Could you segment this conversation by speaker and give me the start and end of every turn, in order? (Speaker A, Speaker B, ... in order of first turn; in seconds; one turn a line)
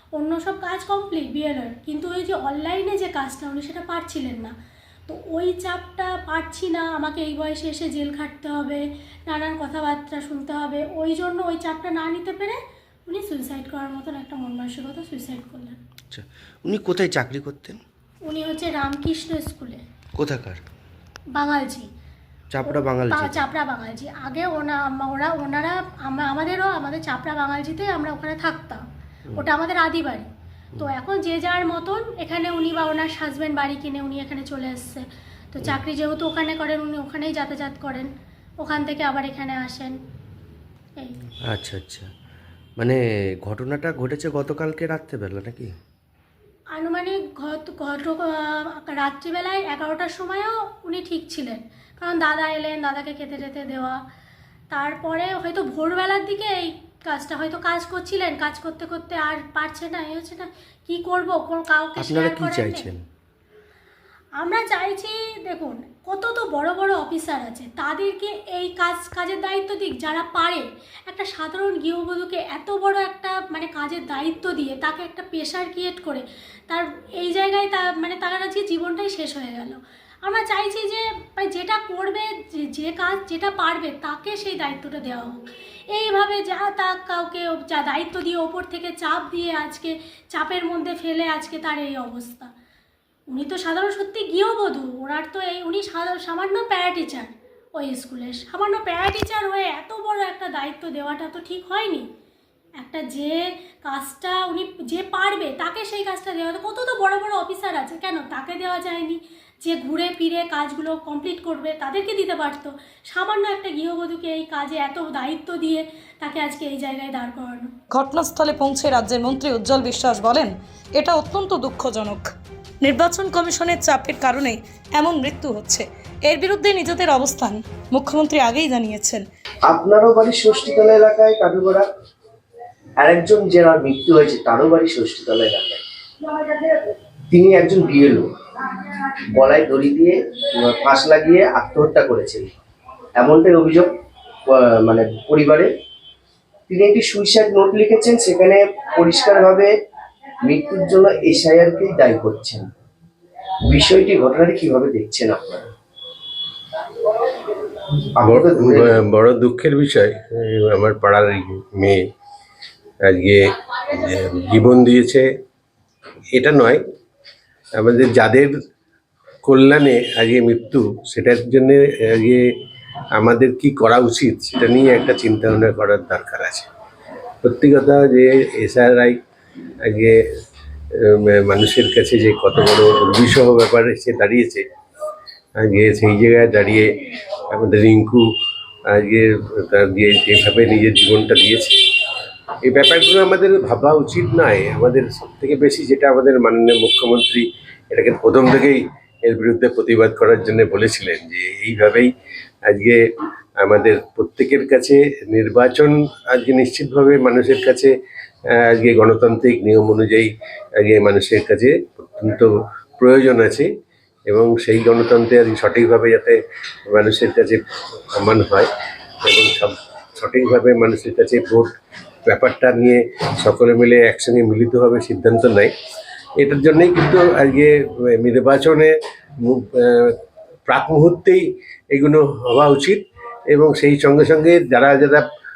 Speaker A: 0.1-4.5
Speaker A: 5.1-15.8
Speaker B: 16.1-17.8
Speaker A: 18.2-19.8
Speaker B: 20.1-20.6
Speaker A: 21.3-21.9
Speaker B: 22.5-23.4
Speaker A: 22.7-28.8
Speaker A: 29.3-30.3
Speaker A: 30.8-38.1
Speaker A: 38.6-40.0
Speaker B: 41.5-42.1
Speaker B: 42.8-45.7
Speaker A: 46.7-54.0
Speaker A: 54.7-62.9
Speaker B: 62.0-63.0
Speaker A: 64.4-92.5
Speaker A: 93.3-102.1
Speaker A: 102.8-117.7
Speaker C: 117.9-122.3
Speaker C: 122.8-129.2
Speaker D: 129.7-131.9
Speaker D: 133.0-136.8
Speaker D: 137.3-138.3
Speaker D: 138.8-142.5
Speaker D: 143.2-143.9
Speaker D: 144.5-145.7
Speaker D: 146.7-149.7
Speaker D: 150.4-152.7
Speaker D: 153.7-155.7
Speaker D: 158.2-159.0
Speaker E: 158.2-162.0
Speaker E: 163.1-165.3
Speaker E: 166.3-166.8
Speaker E: 167.8-168.5
Speaker E: 169.4-172.5
Speaker E: 173.2-176.7
Speaker E: 177.4-179.2
Speaker E: 179.8-180.2
Speaker E: 181.0-184.6
Speaker E: 185.6-186.9
Speaker E: 187.5-188.3
Speaker E: 188.9-191.7
Speaker E: 192.6-202.1
Speaker E: 202.7-203.0
Speaker E: 203.6-207.9
Speaker E: 208.5-213.7
Speaker E: 214.3-216.4
Speaker E: 216.9-217.6
Speaker E: 218.2-218.7
Speaker E: 219.2-221.7
Speaker E: 222.3-225.7
Speaker E: 226.4-230.2
Speaker E: 230.7-235.2